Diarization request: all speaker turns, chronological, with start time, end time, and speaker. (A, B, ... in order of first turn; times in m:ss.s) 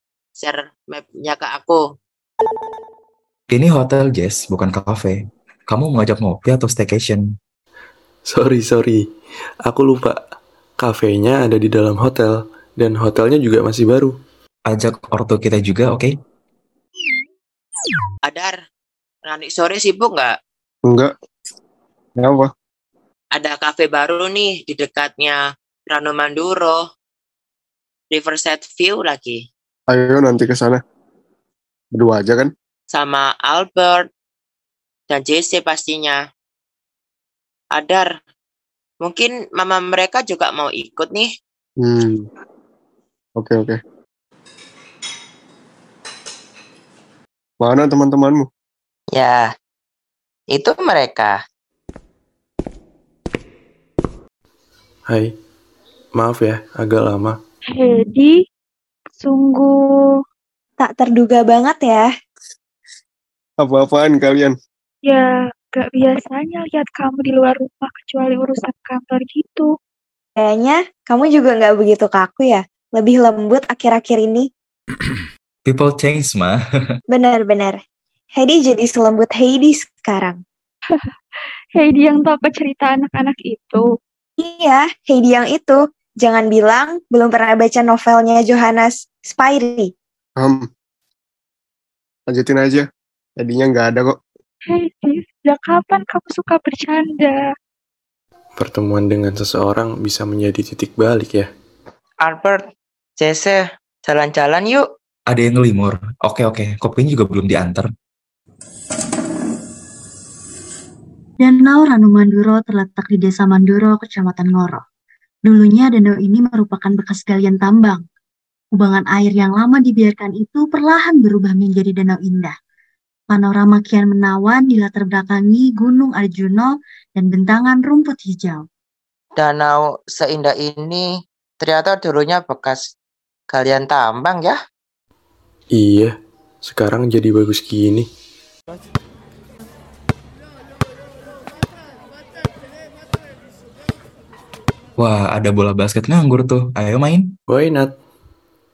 0:00.4-0:01.8 A
0:03.5-0:07.2 B
0:08.3-0:09.1 C
0:09.6-0:10.2 C
0:10.8-0:14.2 C
0:14.7-0:16.1 B
0:18.3-0:18.6 A
0:19.3-0:20.4 A
0:20.8-0:21.1 D
0:22.2-0:22.5 D
0:23.3-0:26.8 A
0:28.1-0:29.4 A
0:29.9-0:30.8 D
0:31.9-0:32.5 D
0:32.9-0:34.1 A
0:35.1-0:36.2 A
0:37.8-0:38.1 A
0:39.0-0:41.3 A
0:41.8-0:42.3 D
0:43.4-0:43.8 D
0:47.6-0:48.5 D
0:49.1-0:49.5 A
0:50.5-0:51.4 A
0:55.1-0:55.4 C
0:56.2-0:57.4 C
0:57.7-0:58.3 E
0:59.2-1:00.0 E
1:00.8-1:02.1 F
1:03.6-1:04.6 D
1:05.0-1:09.7 E
1:10.4-1:14.5 F
1:15.6-1:16.6 B
1:17.1-1:17.8 F
1:18.4-1:20.4 F
1:21.8-1:23.8 E
1:24.4-1:29.9 F
1:30.4-1:30.7 D
1:32.3-1:34.2 D
1:34.7-1:37.4 E
1:38.6-1:41.5 C
1:42.2-1:42.6 A
1:43.2-1:44.9 A
1:45.3-1:47.9 B
1:51.4-1:54.8 G
1:55.4-1:58.0 G
1:58.7-2:02.6 G
2:03.3-2:08.7 G
2:09.4-2:11.1 A
2:11.6-2:12.8 A
2:13.5-2:14.6 A
2:15.7-2:18.1 C
2:25.0-2:27.3 B
2:27.5-2:28.0 C